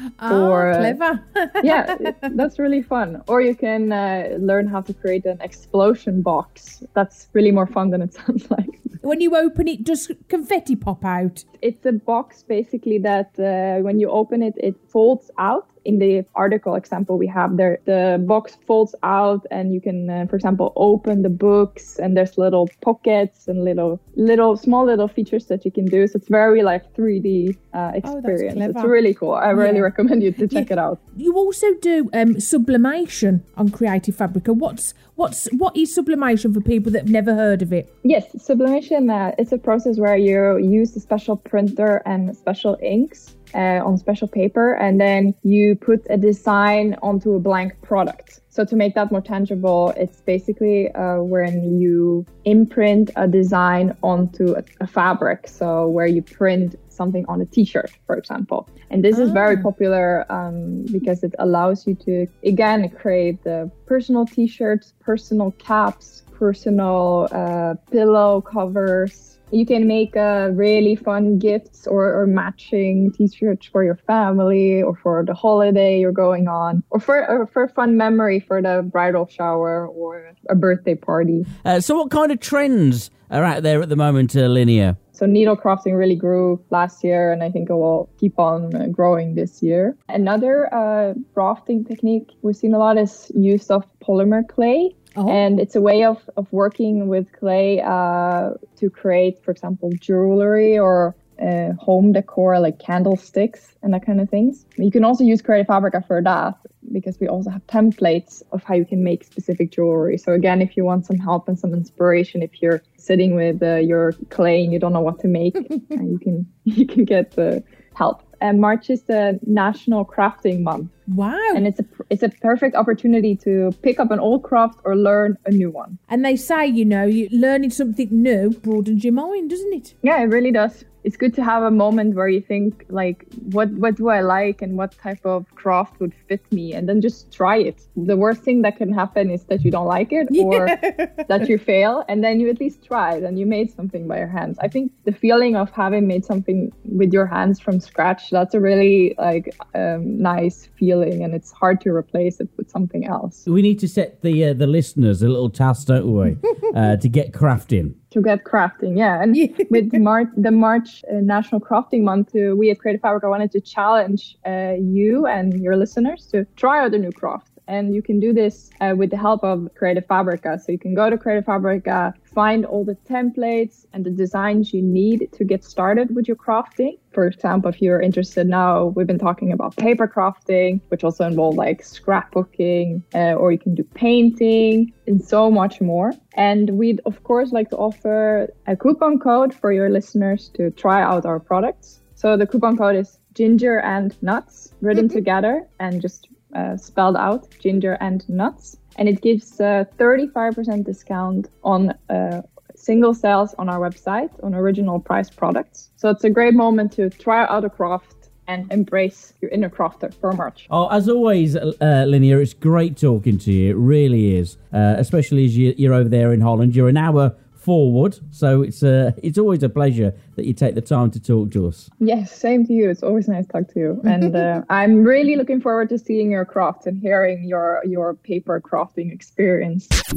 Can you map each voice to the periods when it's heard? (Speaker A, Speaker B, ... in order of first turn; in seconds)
Speaker A: 0.2-2.1, 9.0-11.4, 28.0-29.0, 29.5-29.9, 30.5-37.9, 59.1-59.7, 95.2-95.5, 121.1-121.7, 126.1-129.9, 140.3-141.4
Speaker B: 0.3-1.0, 1.6-9.0, 11.6-31.0, 38.0-81.5, 85.2-120.9, 121.5-126.0, 130.0-153.5, 158.1-210.7, 222.0-229.9
Speaker C: 81.6-85.0, 153.5-157.9, 210.7-221.9